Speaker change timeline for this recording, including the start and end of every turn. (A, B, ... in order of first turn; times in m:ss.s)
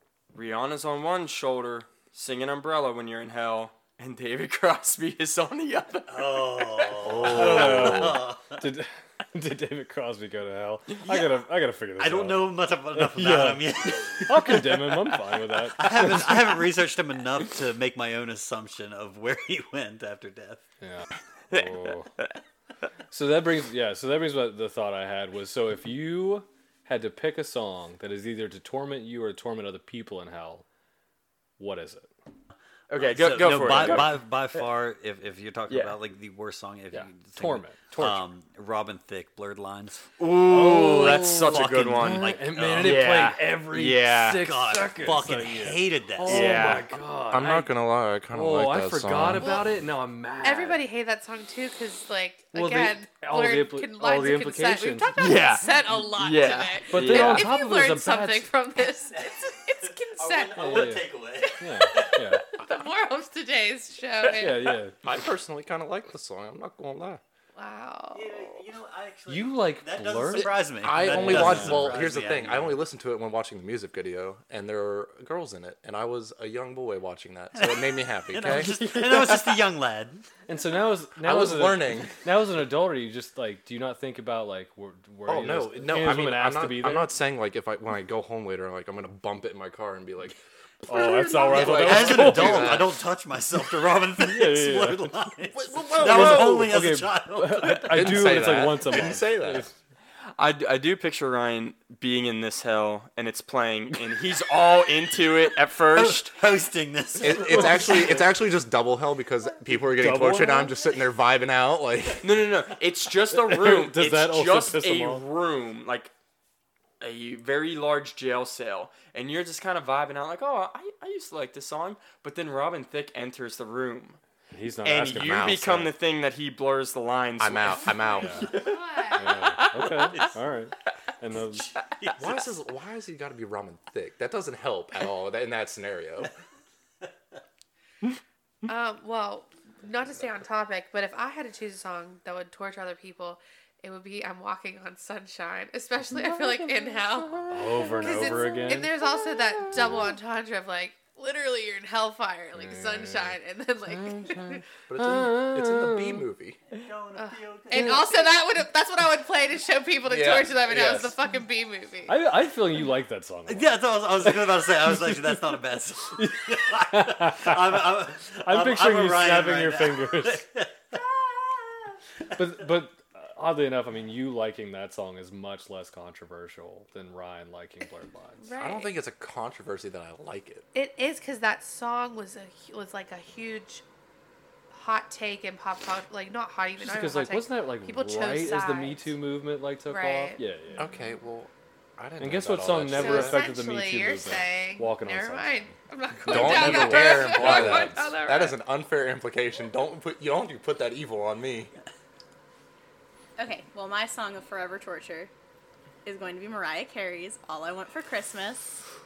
0:00.3-0:07.4 A
0:06.1-0:08.6 B
0:07.1-0:08.2 C
0:07.1-0:16.4 D
0:11.0-0:11.4 B
0:12.0-0:20.6 B
0:20.8-0:22.1 D
0:21.5-0:22.4 A
0:23.1-0:30.6 D
0:31.6-0:32.1 D
0:32.9-0:34.2 A
0:33.0-0:40.0 B
0:33.6-0:34.2 D
0:35.7-0:35.9 A
0:36.9-0:38.2 D
0:40.2-0:44.4 A
0:40.5-0:47.8 D
0:41.3-0:43.3 B
0:44.3-0:46.8 B
0:46.2-0:46.9 A
0:47.3-0:49.6 C
0:48.3-0:50.8 D
0:49.4-0:49.7 E
0:50.4-1:01.0 E
0:52.5-0:55.4 D
0:55.2-0:57.5 A
0:56.9-0:58.5 D
0:59.2-1:02.2 B
1:00.6-1:01.1 D
1:01.5-1:04.8 E
1:01.6-1:02.4 D
1:04.3-1:05.0 D
1:05.0-1:07.2 C
1:07.6-1:08.6 E
1:08.1-1:12.8 B
1:09.3-1:12.0 D
1:10.8-1:18.8 C
1:17.6-1:20.3 B
1:18.5-1:18.8 D
1:20.5-1:27.1 D
1:21.2-1:22.1 C
1:25.3-1:33.0 C
1:30.9-1:32.9 D
1:31.5-1:38.6 B
1:34.2-1:35.2 D
1:35.5-1:36.7 C
1:36.0-1:39.7 D
1:37.9-1:39.7 C
1:40.4-1:46.3 A
1:45.9-1:48.1 B
1:47.2-1:52.3 C
1:47.5-1:48.0 D
1:49.9-1:50.7 D
1:52.2-1:56.1 A
1:53.4-1:55.2 D
1:57.0-2:04.2 A
2:04.5-2:05.7 D
2:04.8-2:09.0 A
2:05.1-2:05.9 C
2:07.4-2:08.6 C
2:08.1-2:08.5 D
2:08.4-2:09.3 E
2:09.2-2:11.7 D
2:09.6-2:09.9 A
2:09.7-2:10.4 B
2:11.6-2:12.5 B
2:12.2-2:16.3 C
2:18.7-2:34.6 E
2:27.5-2:28.9 D
2:32.6-2:36.3 D
2:34.9-2:36.6 C
2:36.7-2:38.3 B
2:37.2-2:42.2 E
2:40.0-2:41.2 C
2:42.1-2:45.4 D
2:43.5-2:52.4 B
2:46.1-2:50.5 D
2:52.3-2:58.4 D
2:58.4-2:59.0 E
2:58.6-3:00.7 C
3:00.7-3:03.8 E
3:04.7-3:09.2 E
3:06.8-3:10.9 D
3:09.9-3:10.4 E
3:10.8-3:13.4 C
3:12.2-3:15.7 D
3:12.9-3:18.6 E
3:16.3-3:21.7 C
3:16.3-3:17.9 B
3:23.4-3:25.3 F
3:26.0-3:28.7 F